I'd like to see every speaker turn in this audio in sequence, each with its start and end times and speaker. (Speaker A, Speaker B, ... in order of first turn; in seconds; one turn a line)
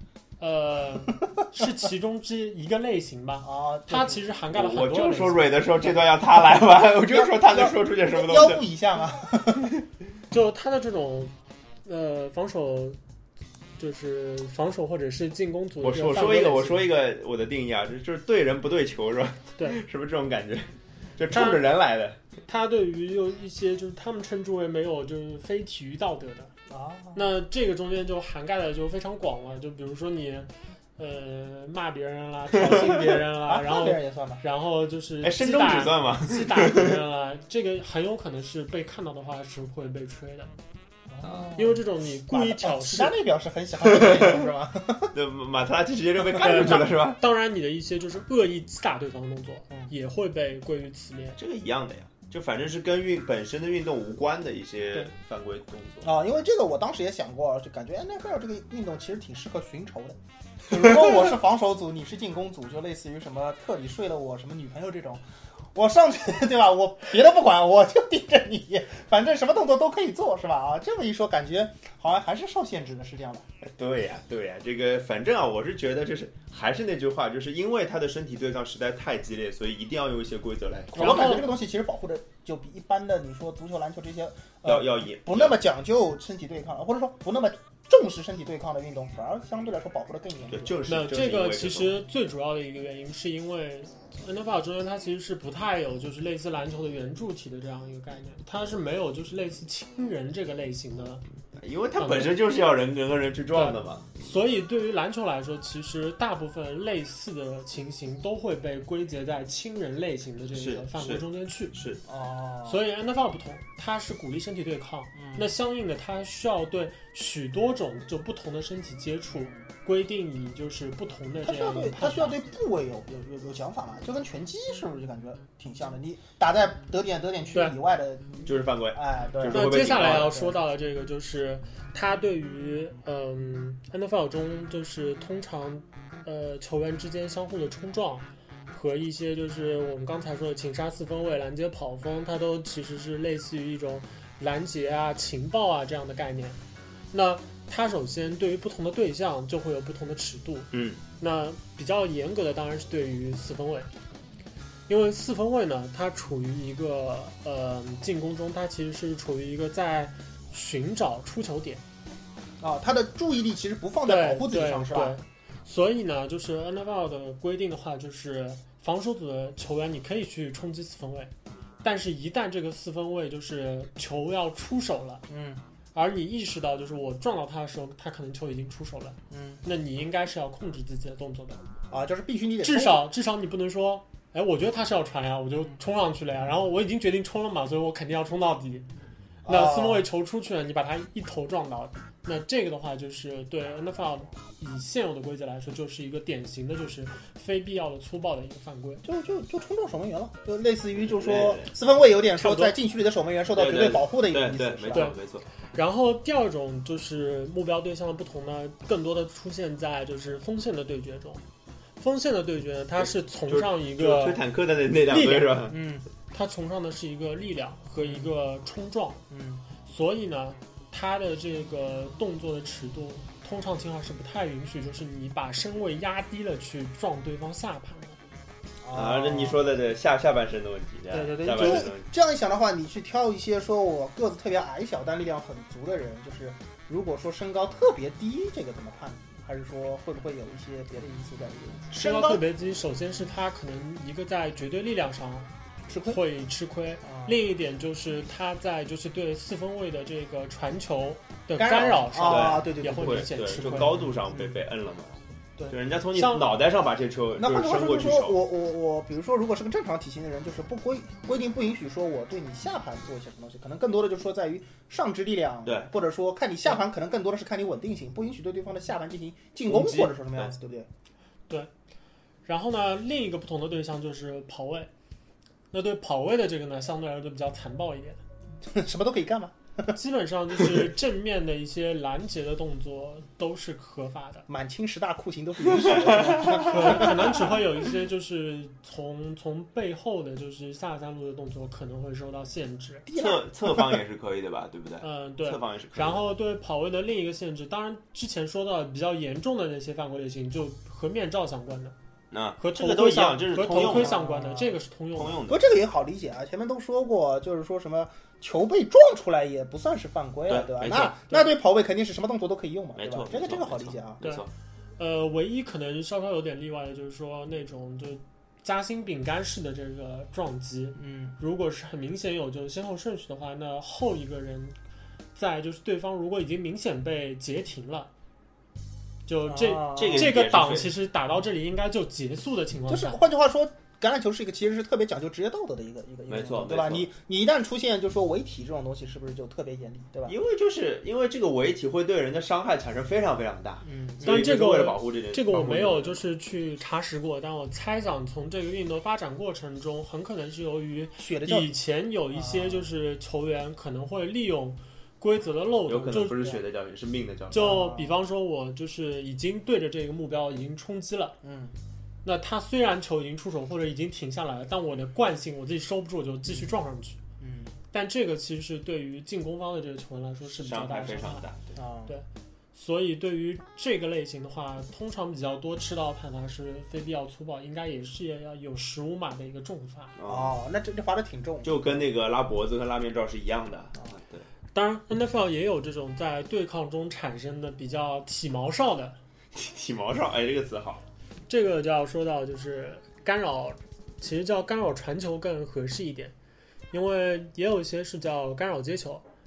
Speaker A: 0.4-5.9
Speaker B: 3.4-4.2
Speaker C: 4.5-8.6
Speaker B: 7.1-9.7
Speaker A: 10.3-11.3
Speaker A: 11.8-13.0
Speaker A: 13.8-16.9
Speaker C: 15.8-22.2
Speaker A: 21.3-21.6
Speaker A: 22.4-26.5
Speaker B: 26.7-27.3
Speaker A: 27.1-40.5
Speaker C: 32.6-33.0
Speaker B: 33.4-34.4
Speaker C: 35.2-37.0
Speaker B: 41.1-45.1
Speaker A: 41.5-43.1
Speaker C: 43.9-44.4
Speaker C: 45.1-47.2
Speaker B: 46.3-46.8
Speaker A: 46.4-51.4
Speaker C: 51.4-56.1
Speaker B: 56.0-65.2
Speaker B: 65.7-73.5
Speaker C: 73.6-81.4
Speaker B: 80.9-90.8
Speaker A: 80.9-81.5
Speaker C: 84.6-85.6
Speaker C: 90.5-92.0
Speaker A: 90.9-101.2
Speaker C: 101.6-104.2
Speaker A: 102.0-102.3
Speaker A: 103.5-111.8
Speaker C: 110.5-112.0
Speaker B: 112.0-112.8
Speaker A: 112.7-122.3
Speaker B: 115.1-115.5
Speaker B: 121.4-130.6
Speaker C: 128.4-130.4
Speaker A: 129.5-146.6
Speaker A: 147.1-153.9
Speaker C: 150.7-151.0
Speaker A: 154.9-161.8
Speaker B: 162.6-165.2
Speaker A: 164.0-171.3
Speaker A: 171.8-175.2
Speaker B: 175.3-175.6
Speaker A: 175.9-181.6
Speaker B: 179.3-179.6
Speaker B: 181.9-183.0
Speaker A: 182.6-188.9
Speaker B: 189.4-190.1
Speaker A: 189.5-199.0
Speaker B: 199.0-205.1
Speaker C: 201.1-201.7
Speaker A: 202.3-202.7
Speaker C: 203.5-205.4
Speaker A: 204.9-205.2
Speaker A: 205.7-211.4
Speaker A: 212.0-214.4
Speaker C: 213.0-215.8
Speaker A: 215.1-215.6
Speaker B: 215.7-216.1
Speaker A: 216.3-219.2
Speaker B: 218.0-218.3
Speaker B: 219.3-219.6
Speaker A: 219.8-228.2
Speaker B: 228.8-229.6
Speaker C: 228.9-232.1
Speaker B: 231.1-241.9
Speaker A: 241.9-245.5
Speaker C: 241.9-242.4
Speaker B: 245.9-246.2
Speaker A: 246.0-254.0
Speaker B: 247.0-247.4
Speaker B: 251.6-253.3
Speaker C: 252.2-255.2
Speaker B: 253.9-254.6
Speaker C: 255.7-258.4
Speaker A: 256.1-256.6
Speaker B: 257.4-270.9
Speaker C: 269.7-270.5
Speaker A: 272.4-274.9
Speaker A: 275.7-278.2
Speaker B: 278.6-279.9
Speaker A: 279.9-284.5
Speaker B: 280.5-280.9
Speaker B: 284.5-287.6
Speaker C: 285.8-286.9
Speaker A: 286.6-293.1
Speaker B: 293.1-294.0
Speaker C: 293.1-296.2
Speaker A: 295.0-301.9
Speaker C: 302.3-304.2
Speaker A: 302.6-305.4
Speaker B: 303.7-304.8
Speaker C: 305.1-305.6
Speaker B: 305.5-314.3
Speaker C: 310.5-311.2
Speaker C: 312.9-314.5
Speaker A: 315.0-324.8
Speaker B: 320.9-321.4
Speaker A: 325.3-328.1
Speaker A: 329.3-333.2
Speaker B: 329.5-330.3
Speaker C: 329.9-330.9
Speaker B: 332.9-340.4
Speaker C: 336.3-337.1
Speaker C: 340.3-346.3
Speaker B: 343.8-344.6
Speaker A: 344.2-356.6
Speaker B: 351.2-351.7
Speaker B: 352.3-352.9
Speaker C: 355.9-357.8
Speaker A: 357.5-361.4
Speaker B: 357.5-358.1
Speaker B: 361.4-361.7
Speaker A: 362.2-367.2
Speaker B: 367.4-367.8
Speaker A: 367.9-371.5
Speaker C: 370.5-371.6
Speaker B: 371.7-372.1
Speaker A: 372.1-380.1
Speaker C: 380.2-380.5
Speaker B: 380.2-381.9
Speaker C: 381.6-384.5
Speaker A: 384.7-389.2
Speaker C: 389.5-391.0
Speaker A: 391.5-396.3
Speaker A: 396.9-399.2